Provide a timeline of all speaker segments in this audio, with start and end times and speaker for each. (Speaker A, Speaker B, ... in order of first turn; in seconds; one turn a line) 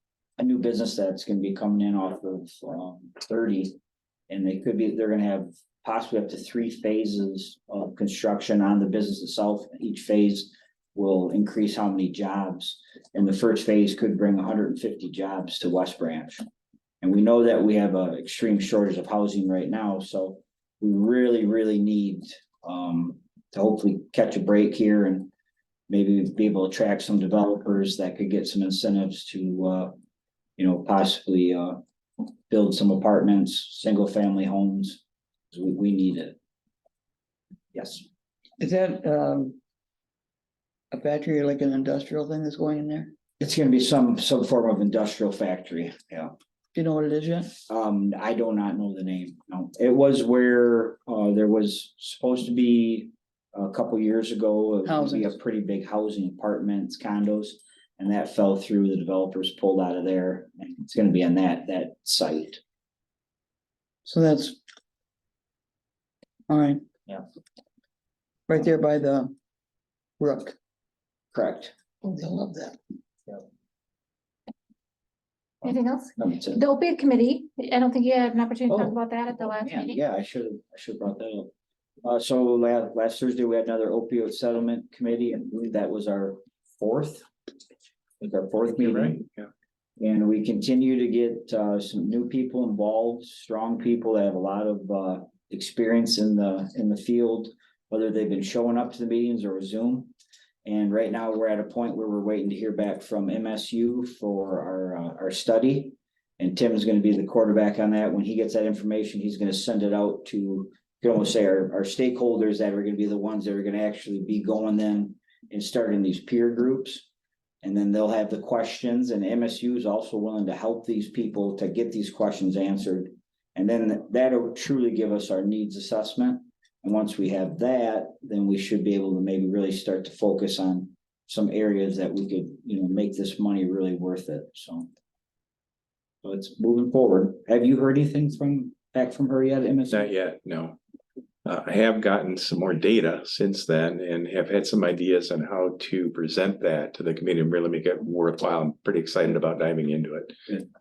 Speaker A: 0.4-3.7
Speaker A: 4.3-16.4
Speaker A: 17.0-25.3
Speaker A: 25.9-29.9
Speaker A: 30.6-31.8
Speaker A: 32.5-36.4
Speaker A: 37.7-38.0
Speaker B: 38.6-39.6
Speaker B: 40.9-43.1
Speaker A: 43.4-46.4
Speaker B: 46.7-47.5
Speaker A: 47.7-62.6
Speaker B: 54.9-55.3
Speaker B: 64.0-64.6
Speaker B: 66.5-66.8
Speaker B: 68.5-69.3
Speaker B: 70.2-70.5
Speaker A: 71.3-71.7
Speaker B: 72.0-72.8
Speaker C: 75.6-80.0
Speaker A: 76.2-76.6
Speaker A: 78.7-81.5
Speaker A: 82.0-87.3
Speaker A: 88.2-89.2
Speaker D: 88.8-89.5
Speaker A: 90.0-100.1
Speaker A: 100.7-117.1
Speaker A: 117.6-134.9
Speaker A: 136.2-140.1
Speaker D: 139.9-140.8
Speaker D: 141.4-150.3